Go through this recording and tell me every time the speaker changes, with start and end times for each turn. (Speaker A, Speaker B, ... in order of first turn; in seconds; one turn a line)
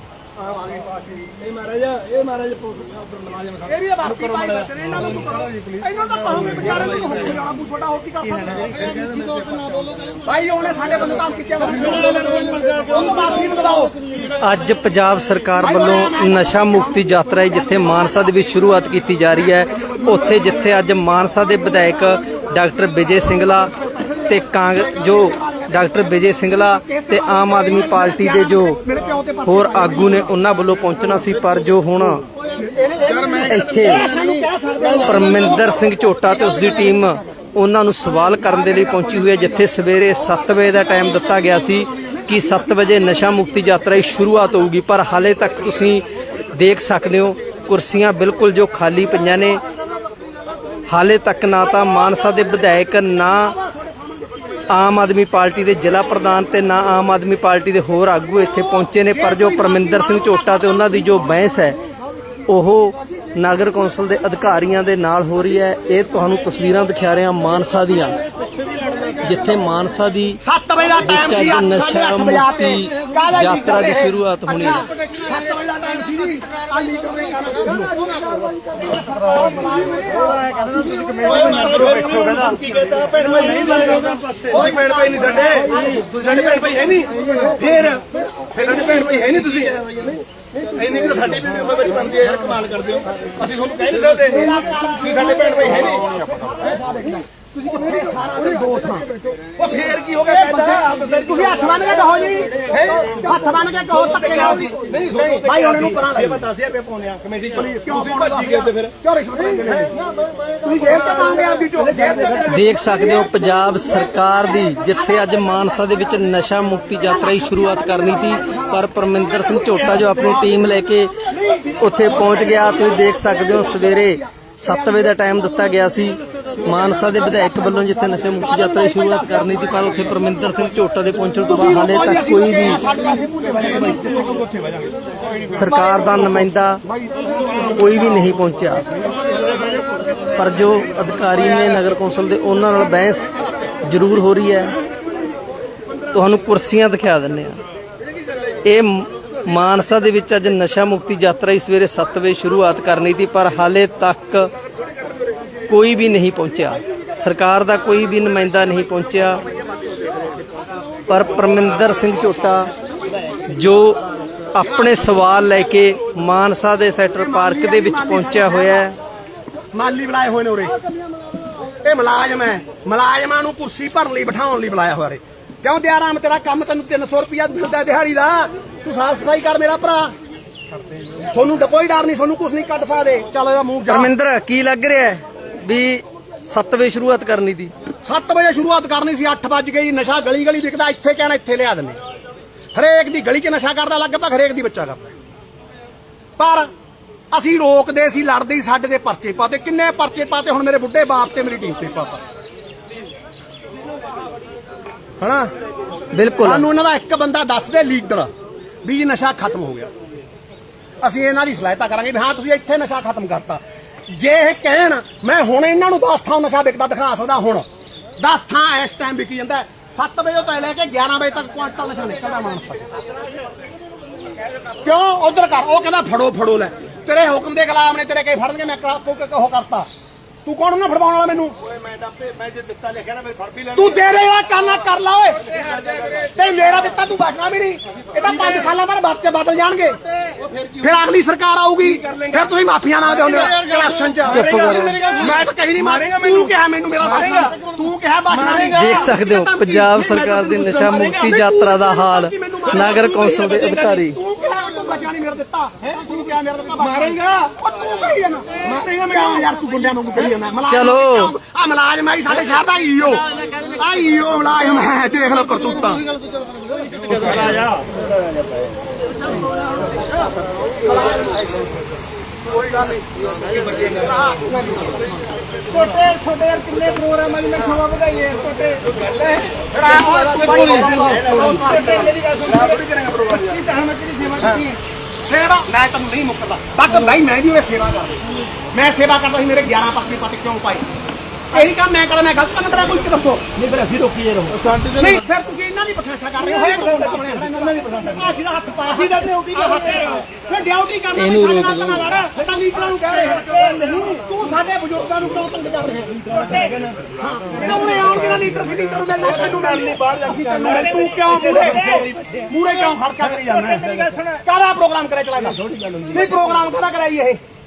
Speaker A: 0.5-5.2
Speaker B: 3.6-8.8
Speaker A: 6.6-7.2
Speaker A: 8.6-9.6
Speaker B: 10.2-13.9
Speaker A: 11.7-13.4
Speaker C: 14.4-23.7
Speaker B: 15.6-18.3
Speaker B: 19.6-20.7
Speaker B: 23.7-25.9
Speaker C: 24.3-28.8
Speaker B: 26.7-30.3
Speaker C: 29.4-32.2
Speaker B: 32.4-35.8
Speaker C: 33.5-34.0
Speaker C: 35.0-49.6
Speaker C: 50.9-53.6
Speaker C: 54.7-61.8
Speaker B: 59.1-61.1
Speaker C: 62.5-68.2
Speaker C: 69.2-70.4
Speaker B: 70.4-80.7
Speaker C: 71.0-74.9
Speaker D: 80.4-82.5
Speaker A: 81.0-90.2
Speaker D: 83.5-84.6
Speaker B: 85.7-86.7
Speaker A: 90.7-96.2
Speaker B: 94.2-99.1
Speaker A: 99.6-102.0
Speaker B: 100.2-106.4
Speaker A: 102.6-103.2
Speaker A: 103.9-108.9
Speaker B: 107.7-109.9
Speaker A: 109.6-110.0
Speaker B: 110.6-113.2
Speaker A: 110.8-112.6
Speaker C: 112.5-121.2
Speaker B: 114.9-115.5
Speaker B: 117.3-118.8
Speaker B: 119.4-120.5
Speaker B: 121.2-123.8
Speaker C: 121.8-132.8
Speaker B: 127.1-130.1
Speaker B: 131.4-134.5
Speaker A: 134.2-134.9
Speaker C: 135.5-136.8
Speaker B: 137.1-137.7
Speaker C: 137.7-138.8
Speaker A: 139.5-139.8
Speaker C: 140.3-144.8
Speaker C: 146.1-147.6
Speaker C: 148.6-154.5
Speaker C: 155.7-159.4
Speaker C: 161.1-162.7
Speaker C: 163.5-164.0
Speaker C: 164.5-168.9
Speaker B: 167.2-168.9
Speaker B: 169.7-170.7
Speaker B: 171.8-180.1
Speaker B: 181.2-184.1
Speaker C: 183.9-187.7
Speaker B: 188.0-192.0
Speaker B: 192.7-195.1
Speaker B: 196.4-196.7
Speaker B: 197.3-202.2
Speaker B: 205.2-205.5
Speaker C: 206.1-206.7
Speaker B: 206.4-208.3
Speaker B: 208.8-209.9
Speaker B: 211.0-217.6
Speaker B: 218.2-222.8
Speaker B: 224.8-229.9
Speaker B: 230.4-231.6
Speaker A: 231.6-234.2
Speaker B: 233.7-235.6
Speaker A: 235.6-236.2
Speaker B: 236.1-240.0
Speaker A: 240.3-241.1
Speaker B: 240.8-266.1
Speaker A: 241.8-242.5
Speaker A: 243.1-247.6
Speaker C: 244.3-245.1
Speaker A: 248.3-249.1
Speaker C: 248.8-254.2
Speaker A: 250.9-251.6
Speaker A: 252.7-253.1
Speaker A: 256.8-257.5
Speaker A: 258.6-259.5
Speaker C: 260.7-261.3
Speaker A: 267.0-267.9
Speaker B: 270.8-271.4
Speaker B: 272.5-275.2
Speaker A: 273.4-273.9
Speaker A: 274.5-274.8
Speaker D: 275.7-278.8
Speaker A: 278.8-283.7
Speaker B: 279.7-283.5
Speaker D: 280.4-282.6
Speaker D: 283.5-284.8
Speaker A: 284.4-284.7
Speaker B: 285.2-290.9
Speaker B: 291.5-293.5
Speaker A: 293.5-295.2
Speaker B: 294.9-306.2
Speaker A: 296.4-298.3
Speaker A: 298.9-300.3
Speaker C: 301.1-302.1
Speaker A: 302.4-304.3
Speaker A: 306.1-308.0
Speaker B: 307.2-317.4
Speaker A: 309.2-312.5
Speaker A: 313.2-314.3
Speaker A: 315.4-316.4